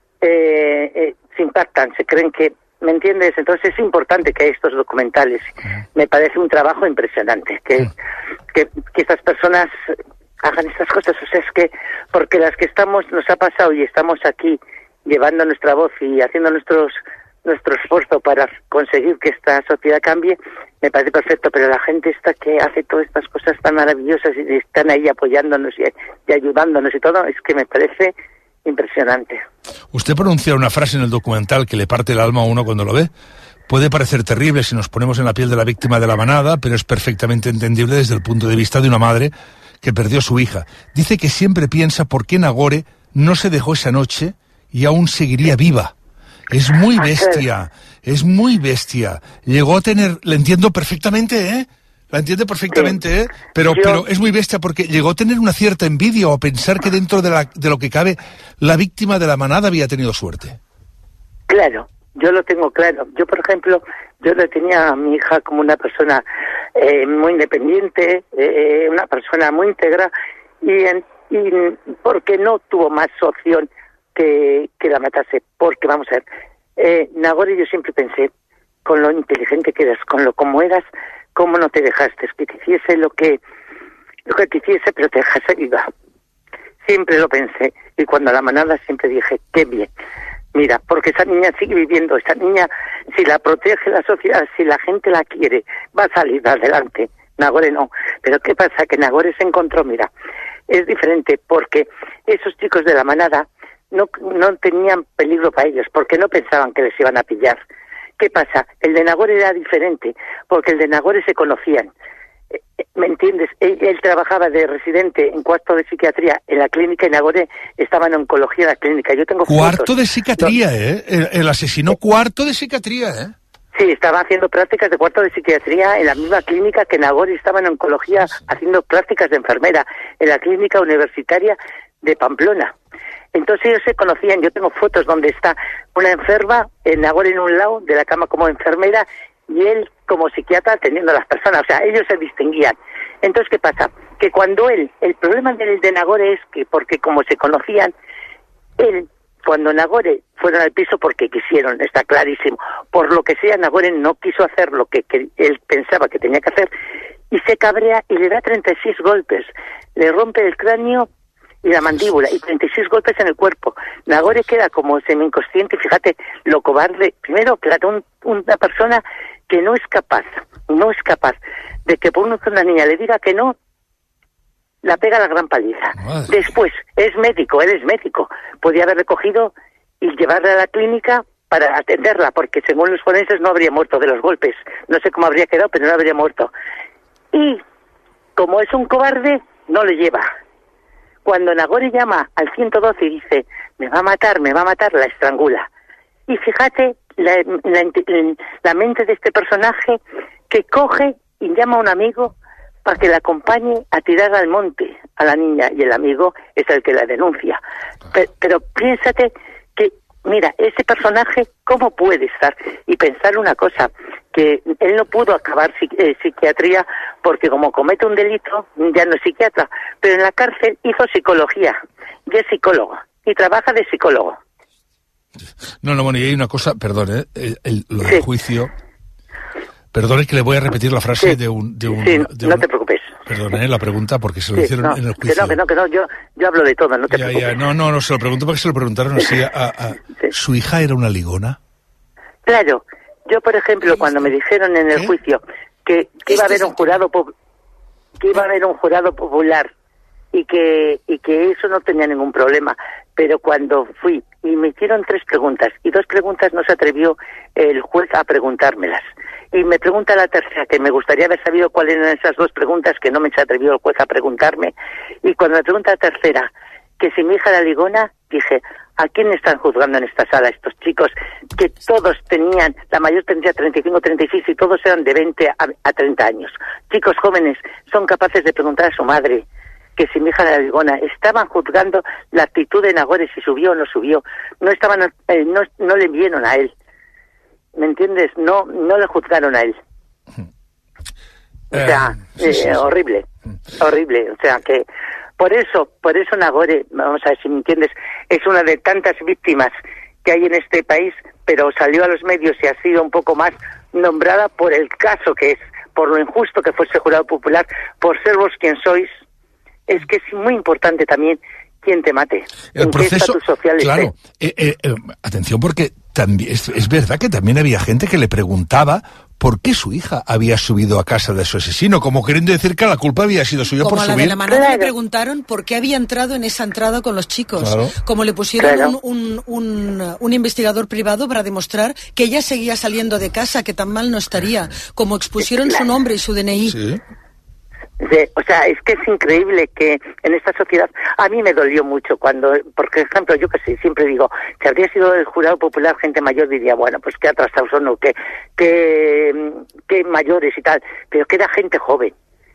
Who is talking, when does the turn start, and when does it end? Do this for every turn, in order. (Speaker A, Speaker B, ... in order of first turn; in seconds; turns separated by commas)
Speaker A: 0.2-7.9, Speaker A: 8.5-28.1, Speaker A: 28.6-29.4, Speaker B: 29.9-33.1, Speaker B: 33.7-45.9, Speaker B: 46.5-60.6, Speaker A: 47.0-47.4, Speaker A: 53.6-54.0, Speaker A: 61.5-66.2, Speaker A: 66.8-70.1, Speaker A: 70.6-76.2, Speaker A: 76.8-78.3, Speaker A: 78.8-83.4, Speaker A: 84.2-85.9, Speaker A: 86.8-89.9, Speaker A: 90.5-100.1, Speaker A: 100.7-107.6, Speaker A: 108.2-111.9, Speaker A: 113.0-120.5, Speaker B: 119.5-123.3, Speaker A: 123.7-132.7, Speaker A: 133.3-147.9, Speaker A: 148.8-156.7, Speaker A: 157.3-161.1, Speaker A: 161.6-173.5, Speaker A: 174.8-186.5, Speaker B: 176.0-176.4, Speaker A: 187.3-187.6, Speaker A: 188.3-190.3, Speaker A: 191.2-195.7, Speaker A: 196.3-202.3, Speaker A: 202.8-207.6, Speaker A: 208.1-221.8, Speaker A: 222.3-224.4, Speaker B: 225.8-228.7, Speaker B: 229.9-232.6, Speaker A: 231.9-233.1, Speaker B: 233.2-235.6, Speaker A: 234.6-237.5, Speaker B: 237.1-241.6, Speaker A: 242.4-247.3, Speaker B: 243.9-244.2, Speaker A: 248.2-249.7, Speaker A: 250.3-264.7, Speaker A: 265.2-266.5, Speaker A: 267.0-279.4, Speaker A: 279.9-286.7, Speaker A: 287.8-289.8, Speaker A: 291.7-293.2, Speaker B: 291.7-292.8, Speaker A: 293.8-294.8, Speaker A: 295.4-299.7, Speaker A: 300.2-309.1, Speaker A: 309.9-314.1, Speaker B: 312.7-324.4, Speaker C: 323.8-336.8, Speaker A: 324.5-324.9, Speaker B: 327.6-327.9, Speaker A: 328.6-328.9, Speaker B: 336.7-337.0, Speaker A: 338.0-352.1